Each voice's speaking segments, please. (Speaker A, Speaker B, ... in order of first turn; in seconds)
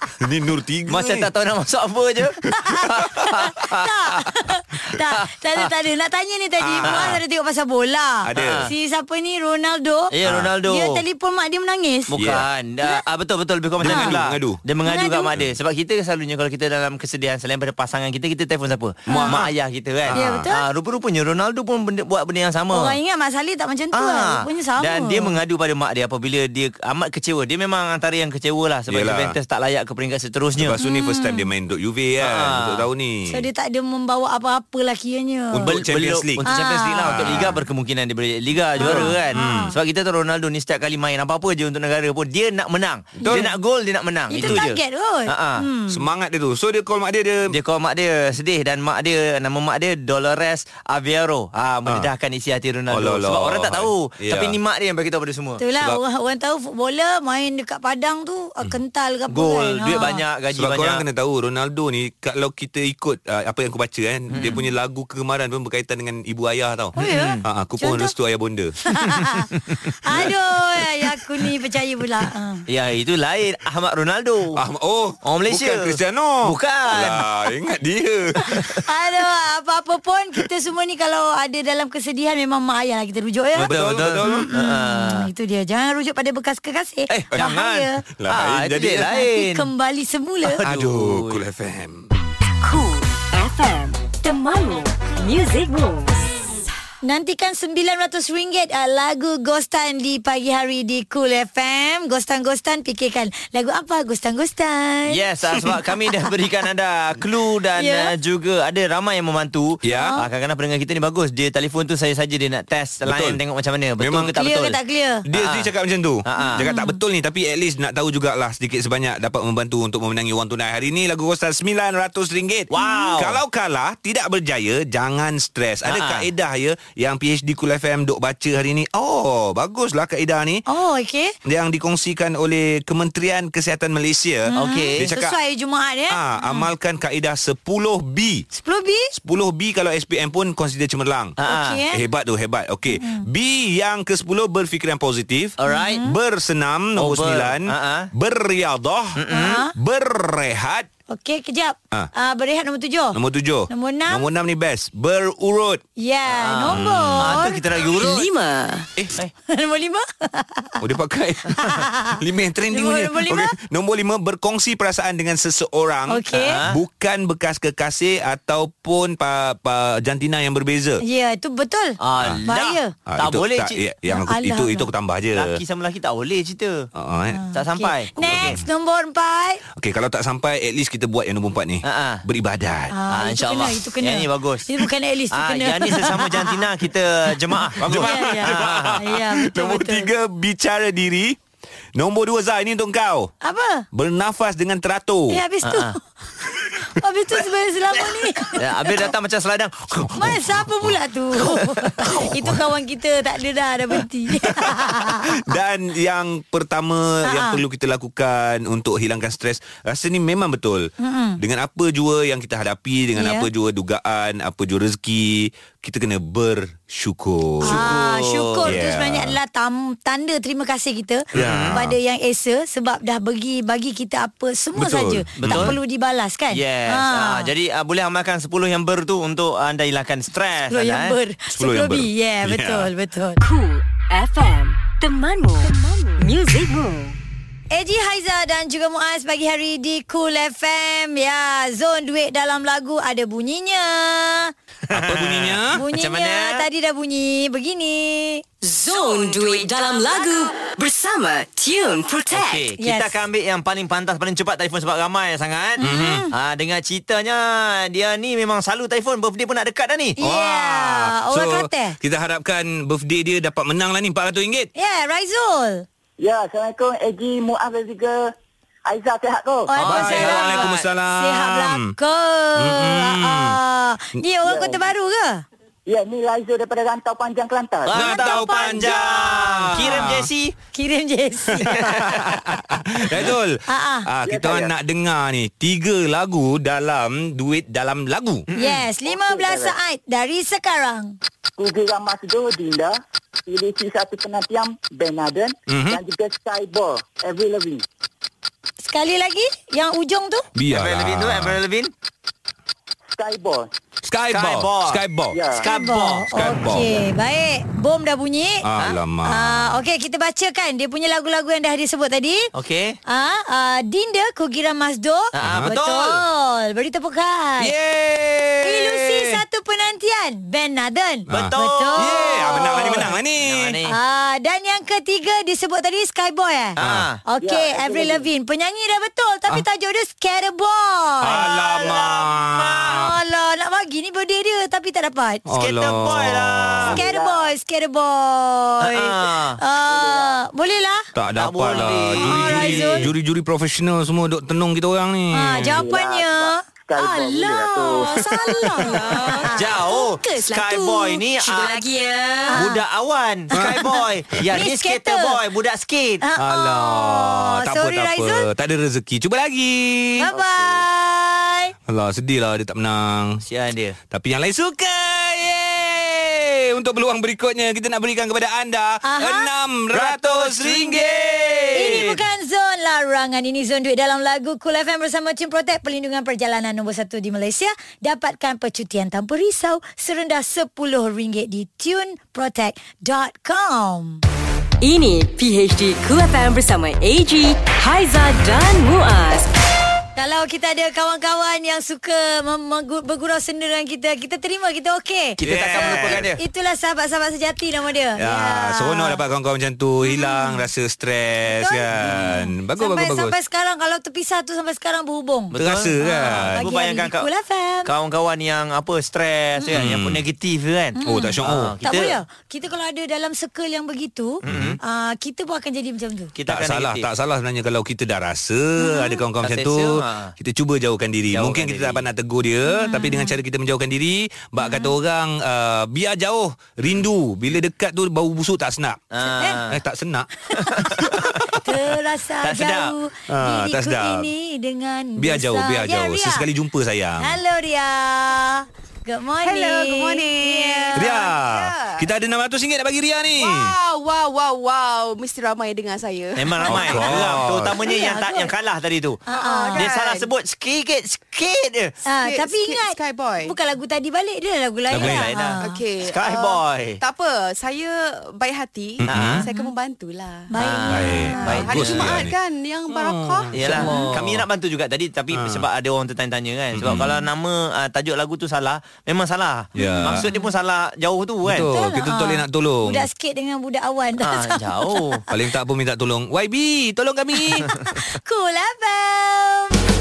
Speaker A: 0.2-1.3, 6.6-7.2, 8.3-8.7, 10.2-10.5, 12.1-12.4, 13.8-14.6, 19.1-19.5, 20.1-20.4, 28.9-29.4, 30.6-33.4, 35.5-36.4, 37.0-37.6, 38.8-39.7, 43.2-43.5, 45.9-47.6, 52.9-54.6, 59.9-68.8, 74.5-78.8, 83.6-84.5, 88.2-89.1, 90.7-92.1, 109.8-110.1, 113.0-113.4, 114.0-114.3, 115.3-130.7, 131.4-135.3, 136.1-138.4, 139.1-141.3, 141.9-149.2, 149.8-150.9, 153.1-155.8, 156.7-157.4, 160.8-171.0, 173.1-175.6, 176.9-177.4, 178.2-178.6, 179.8-182.9, 187.8-191.4, 191.9-193.3, 193.9-195.4, 200.3-200.6, 202.2-202.5, 204.5-217.9, 218.6-219.4, 221.3-221.9, 224.8-225.8, 231.5-232.9, 244.9-245.8, 255.8-256.3, 260.2-264.7, 269.9-271.9, 272.6-273.6, 277.9-280.3, 281.6-288.4, 295.7-296.0, 300.6-301.6, 304.1-305.4, 306.3-307.0, 308.6-309.8, 315.4-315.7, 317.6-319.4, 321.3-323.8, 326.8-327.1, 331.2-333.1, 335.5-337.0, 341.1-345.9, 348.2-349.4, 353.5-353.9, 356.4-360.3, 361.9-363.4, 364.1-372.1, 395.4-396.3, 398.2-403.3, 405.6-406.6, 409.7-410.2, 411.1-411.7, 414.4-414.8, 416.5-429.0, 429.7-431.1, 433.3-434.3, 435.2-437.4, 440.9-443.7, 446.6-447.8, 454.9-455.3, 459.0-459.4, 460.9-462.3, 462.9-464.5, 465.3-465.6, 466.7-467.2, 469.8-470.3, 471.4-473.1, 475.3-477.8
Speaker B: 0.9-4.2, 4.9-5.7, 6.8-7.2, 8.4-8.7, 10.1-11.0, 12.1-22.9, 23.9-30.8, 32.2-32.8, 35.6-45.6, 47.5-55.6, 59.3-61.0, 64.3-64.6, 67.0-67.4, 69.0-70.3, 72.7-74.6, 75.2-77.3, 83.7-85.3, 87.1-89.7, 90.5-91.4, 105.1-114.8, 115.3-115.7, 116.3-116.6, 122.7-123.4, 125.9-126.3, 134.5-135.1, 141.4-141.8, 145.6-146.1, 146.9-148.1, 149.2-149.6, 156.3-158.3, 166.3-166.8, 172.0-173.8, 175.3-176.9, 177.5-178.6, 181.8-182.2, 183.1-184.7, 185.3-189.0, 195.6-195.9, 198.6-200.6, 201.4-202.4, 217.6-218.8, 221.3-221.8, 225.4-225.8, 226.5-231.2, 244.9-246.6, 252.3-260.2, 269.8-270.8, 277.9-280.5, 281.6-282.4, 283.0-283.3, 288.5-288.8, 300.7-301.9, 304.3-305.0, 305.5-306.3, 312.6-313.0, 315.3-316.2, 321.3-324.0, 326.8-327.2, 335.6-337.0, 338.8-339.6, 341.4-343.1, 349.6-351.8, 352.5-356.2, 363.4-364.0, 369.9-372.2, 395.4-396.4, 402.0-402.3, 405.5-407.3, 407.8-412.2, 414.4-414.8, 416.3-417.1, 419.4-420.3, 421.3-422.1, 429.1-429.8, 430.8-431.6, 432.4-432.9, 446.4-449.2, 449.7-451.9, 455.0-457.0, 459.1-459.5, 460.6-462.3, 463.5-471.7, 474.2-475.2
Speaker C: 2.6-10.1, 10.6-12.1, 13.8-14.1, 14.8-15.3, 19.1-19.4, 20.1-20.6, 22.7-25.4, 30.8-31.5, 33.3-35.7, 36.4-37.6, 38.8-39.8, 43.2-43.5, 44.3-46.0, 55.6-60.2, 67.0-68.1, 68.9-69.5, 70.0-72.6, 78.8-83.7, 84.2-88.0, 89.0-90.6, 97.0-105.2, 107.8-108.1, 109.9-110.2, 114.4-115.2, 116.4-117.0, 122.7-123.1, 130.7-131.3, 134.5-136.7, 138.5-139.1, 141.4-142.0, 142.9-143.3, 145.7-146.1, 149.3-149.7, 151.1-153.2, 153.7-154.3, 156.0-157.6, 159.5-160.8, 161.7-162.2, 162.7-163.6, 166.1-166.6, 171.0-172.9, 174.1-174.9, 177.3-179.6, 182.9-186.7, 187.6-190.1, 193.4-193.8, 195.3-196.0, 196.9-199.1, 200.2-205.5, 207.2-207.6, 211.0-211.4, 213.2-213.5, 217.6-227.5, 230.7-233.4, 237.7-244.5, 245.7-248.4, 252.8-253.2, 255.8-256.3, 260.2-262.0, 264.8-265.8, 269.7-275.4, 278.0-278.8, 280.7-281.7, 283.7-284.1, 288.6-291.2, 298.8-300.4, 305.6-308.6, 309.2-312.5, 313.1-317.7, 318.6-323.1, 323.9-335.4, 336.8-341.0, 342.2-343.1, 345.3-349.8, 352.5-352.8, 354.5-355.4, 356.2-358.5, 360.2-361.7, 369.0-369.5, 371.7-384.2, 390.1-399.2, 400.0-400.7, 401.5-407.9, 409.6-409.8, 411.0-416.3, 418.8-419.2, 422.7-423.4, 424.6-424.9, 430.5-436.4, 437.2-441.3, 446.7-447.1, 447.7-448.5, 449.3-449.9, 452.1-455.8, 460.5-461.6, 463.7-464.1, 469.8-470.5, 471.7-475.2, 477.3-479.8
Speaker D: 92.6-96.3, 157.9-158.9, 233.4-237.2, 248.6-252.7, 348.3-352.7, 384.8-389.5
Speaker E: 266.2-268.3, 268.9-269.8, 274.4-274.8, 275.9-278.0, 289.1-289.7, 291.6-297.8, 303.1-303.7, 305.3-305.6, 327.4-328.3, 331.4-331.9, 336.9-337.5, 339.9-340.4, 345.8-348.1
Speaker F: 439.4-442.1, 443.4-447.2, 449.3-450.3, 452.1-453.6, 455.6-460.5, 461.4-463.6